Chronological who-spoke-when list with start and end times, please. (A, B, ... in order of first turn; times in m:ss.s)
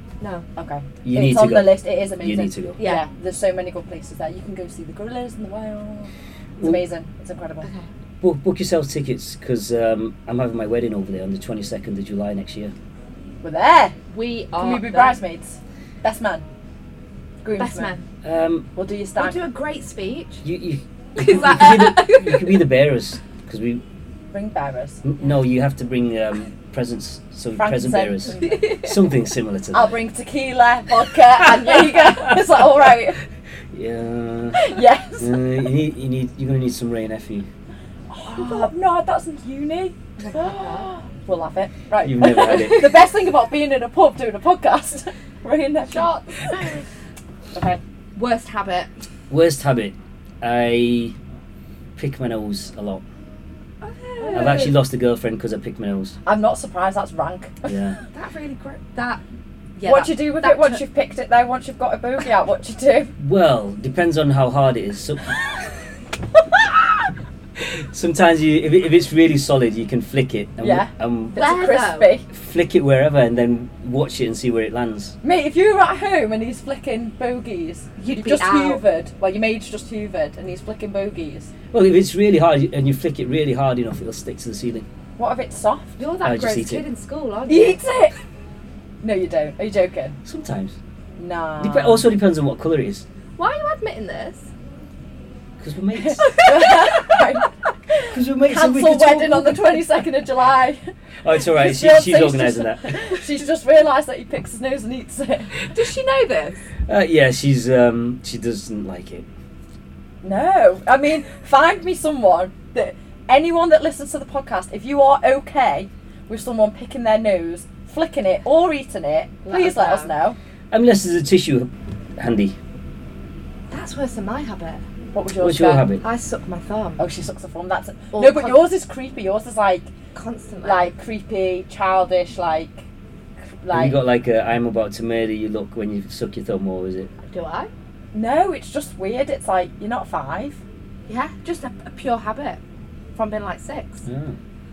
0:00.2-0:00.5 A
0:00.6-0:07.7 B
0:01.0-0:02.8 C
0:02.8-0:03.1 A
0:08.2-0:12.7 C
0:13.4-0:14.0 B
0:14.1-0:15.2 A
0:14.6-0:16.4 B
0:17.4-0:17.9 B
0:17.6-0:18.0 A
0:18.2-0:18.7 C
0:18.8-0:19.4 B
0:19.2-0:20.4 A
0:20.4-0:23.8 C
0:21.2-0:22.6 A
0:24.3-0:25.0 B
0:25.0-0:30.0 C
0:27.6-0:28.7 B
0:28.4-0:29.0 A
0:29.7-0:33.2 B
0:33.7-0:37.5 C
0:34.5-0:35.4 B
0:38.1-0:46.8 B
0:38.3-0:38.7 A
0:40.2-0:40.9 A
0:42.0-0:42.9 C
0:42.3-0:43.0 A
0:45.9-0:46.4 A
0:47.5-0:47.8 B
0:48.2-0:48.9 A
0:49.3-0:51.2 C
0:52.0-0:53.0 C
0:53.8-0:54.7 A
0:54.2-0:54.7 B
0:54.3-0:56.2 C
0:56.2-0:57.8 B
0:57.6-0:58.0 C
0:58.1-0:59.2 A
0:59.8-1:00.8 A
0:59.8-1:03.1 B
1:03.2-1:05.4 C
1:07.6-1:11.4 C
1:10.6-1:12.3 B
1:11.4-1:12.1 A
1:12.3-1:15.2 C
1:15.2-1:21.5 B
1:18.0-1:18.8 A
1:21.7-1:24.9 C
1:25.2-1:26.0 B
1:26.0-1:27.8 A
1:26.2-1:26.8 C
1:27.5-1:28.1 B
1:29.0-1:30.2 B
1:30.2-1:30.8 C
1:31.2-1:32.1 B
1:31.6-1:33.1 C
1:33.4-1:34.5 A
1:35.6-1:36.6 C
1:36.0-1:40.8 B
1:36.3-1:36.8 A
1:38.1-1:40.0 C
1:41.2-1:43.0 C
1:41.4-1:45.6 B
1:45.6-1:46.7 A
1:46.9-1:49.3 C
1:50.2-2:00.4 B
1:59.5-2:00.1 A
2:00.7-2:02.6 C
2:03.7-2:04.8 A
2:05.1-2:05.9 B
2:05.4-2:06.0 C
2:06.0-2:07.0 A
2:07.0-2:09.9 B
2:08.1-2:08.6 A
2:10.2-2:10.9 A
2:10.6-2:12.9 B
2:13.6-2:14.0 B
2:13.7-2:17.1 C
2:17.2-2:17.7 A
2:18.1-2:20.6 B
2:21.1-2:22.6 A
2:23.2-2:24.0 A
2:24.1-2:24.4 C